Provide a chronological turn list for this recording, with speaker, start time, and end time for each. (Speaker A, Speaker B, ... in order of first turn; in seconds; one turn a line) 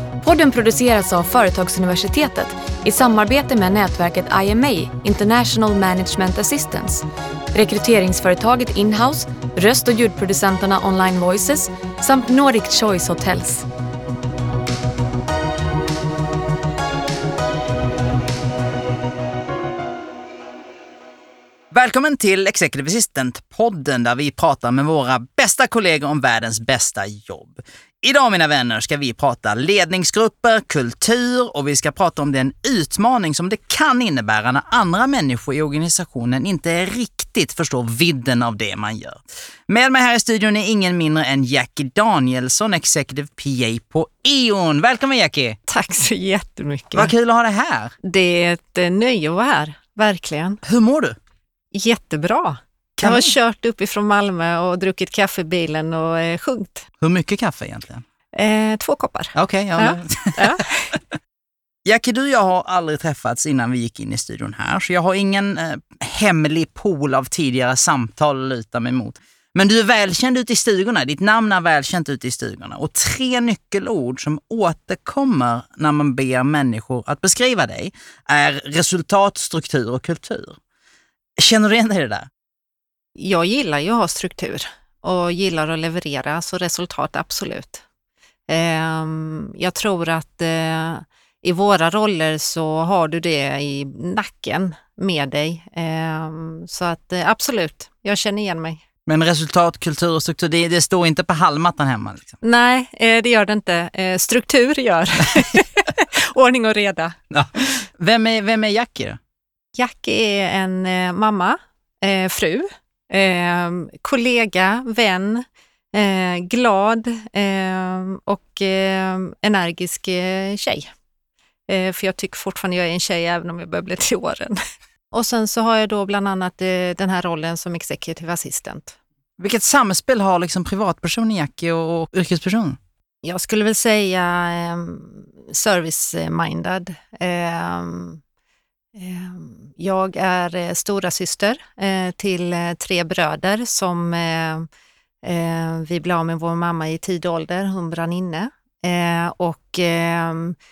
Speaker A: 0.2-13.7
Speaker B: 21.7-45.6
Speaker C: 45.7-47.1
Speaker B: 46.9-47.9
Speaker C: 48.0-50.6
Speaker B: 50.6-51.2
Speaker C: 51.7-56.9
Speaker B: 53.0-53.3
Speaker B: 57.0-58.0
Speaker C: 58.3-61.0
Speaker B: 59.3-60.6
Speaker B: 61.9-80.6
Speaker B: 81.4-82.3
Speaker C: 83.2-87.8
Speaker C: 88.5-98.8
Speaker B: 99.0-102.4
Speaker C: 102.4-107.2
Speaker B: 107.3-109.2
Speaker C: 109.7-120.9
Speaker C: 121.7-124.6
Speaker C: 125.1-129.0
Speaker B: 129.4-132.8
Speaker C: 133.2-138.2
Speaker C: 138.9-144.7
Speaker C: 145.2-150.6